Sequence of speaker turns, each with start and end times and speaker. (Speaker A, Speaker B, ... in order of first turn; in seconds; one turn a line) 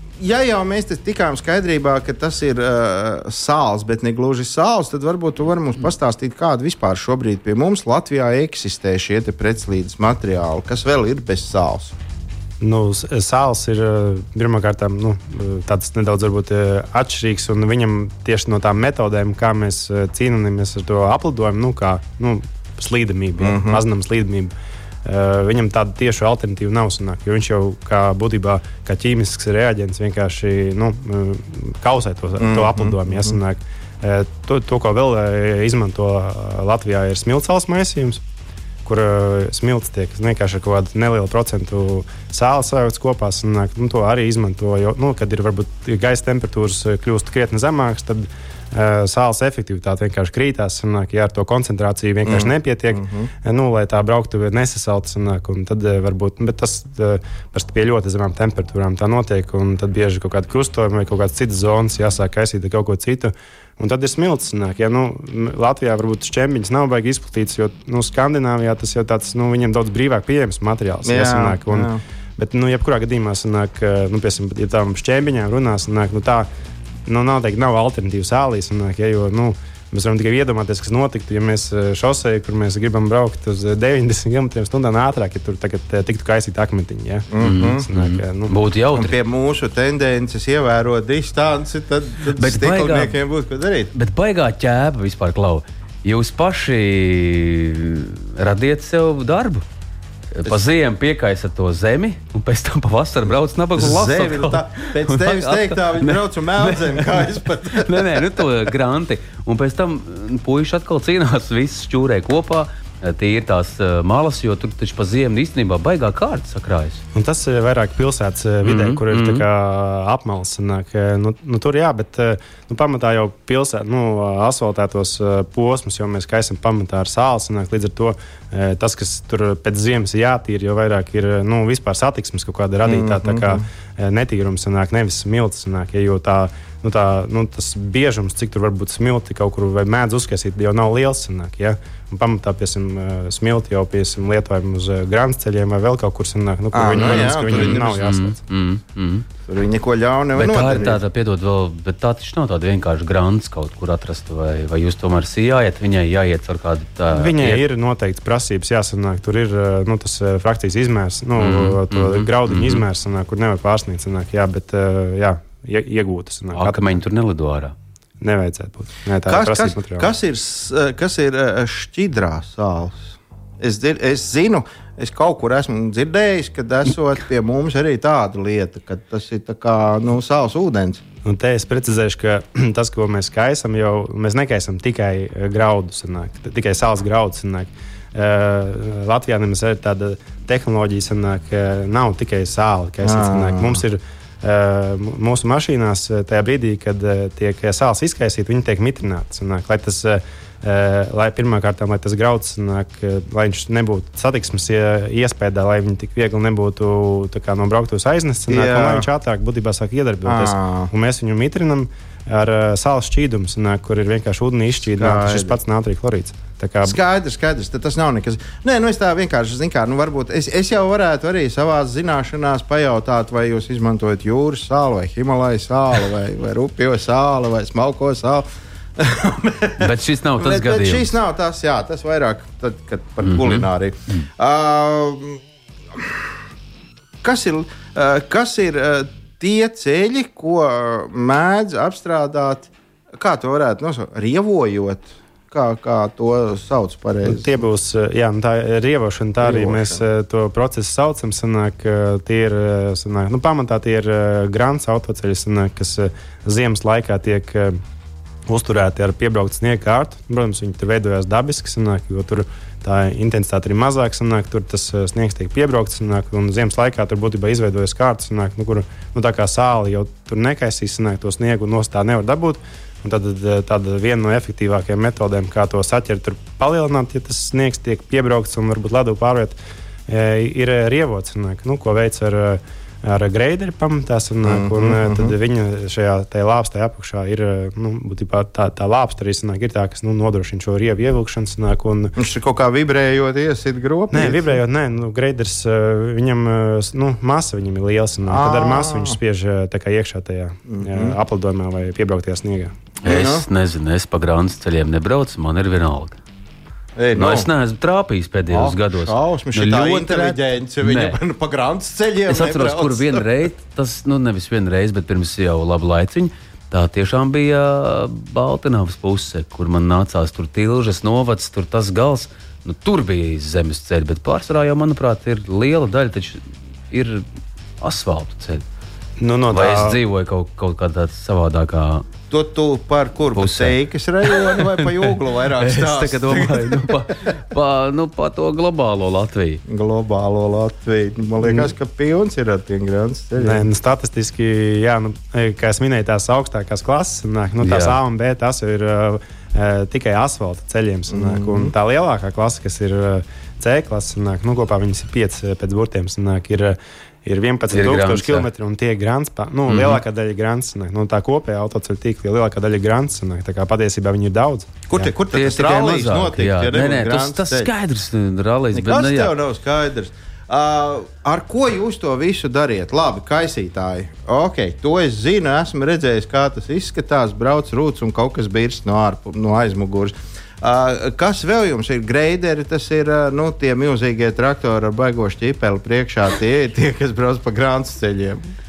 Speaker A: 0.2-11.9
Speaker B: 12.6-24.5
Speaker A: 23.4-23.8
Speaker B: 25.0-38.2
Speaker A: 32.4-33.4
Speaker B: 38.8-76.5
Speaker A: 52.2-53.3
Speaker A: 71.0-72.0
Speaker B: 77.1-88.5
Speaker A: 87.3-87.8
Speaker C: 87.4-89.1
Speaker A: 88.9-93.9
Speaker C: 92.3-93.2
Speaker C: 93.9-99.6
Speaker C: 100.3-117.0
Speaker A: 103.8-108.4
Speaker B: 117.1-148.4
Speaker C: 118.6-119.4
Speaker A: 132.8-133.6
Speaker A: 146.7-147.9
Speaker C: 147.0-149.3
Speaker A: 149.4-151.0
Speaker C: 150.3-157.6
Speaker B: 157.1-167.0
Speaker C: 161.4-162.8
Speaker C: 166.6-167.7
Speaker B: 168.2-170.1
Speaker A: 169.3-181.0
Speaker B: 181.2-217.0
Speaker A: 193.0-193.8
Speaker A: 208.5-209.1
Speaker A: 210.2-210.9
Speaker A: 214.8-215.6
Speaker A: 216.8-228.4
Speaker A: 229.0-235.4
Speaker C: 229.8-231.1
Speaker C: 233.2-234.2
Speaker A: 235.9-236.3
Speaker A: 237.2-247.6
Speaker B: 247.2-257.8
Speaker A: 249.4-250.0
Speaker B: 258.5-279.6
Speaker B: 280.1-292.1
Speaker A: 284.4-285.3
Speaker A: 292.1-294.5
Speaker B: 294.1-302.7
Speaker A: 298.3-299.2
Speaker A: 300.7-301.2
Speaker C: 303.0-306.2
Speaker A: 303.0-303.4
Speaker A: 306.9-307.5
Speaker C: 307.1-311.2
Speaker A: 308.5-313.2
Speaker C: 312.3-327.2
Speaker C: 327.8-328.6
Speaker B: 329.2-330.0
Speaker C: 329.5-332.1
Speaker A: 332.3-337.0
Speaker C: 333.3-339.6
Speaker A: 339.7-343.6
Speaker B: 343.4-365.1
Speaker C: 347.6-348.0
Speaker A: 351.1-351.7
Speaker C: 357.7-358.5
Speaker C: 359.7-360.0
Speaker A: 364.9-367.7
Speaker C: 365.3-369.3
Speaker A: 368.7-388.4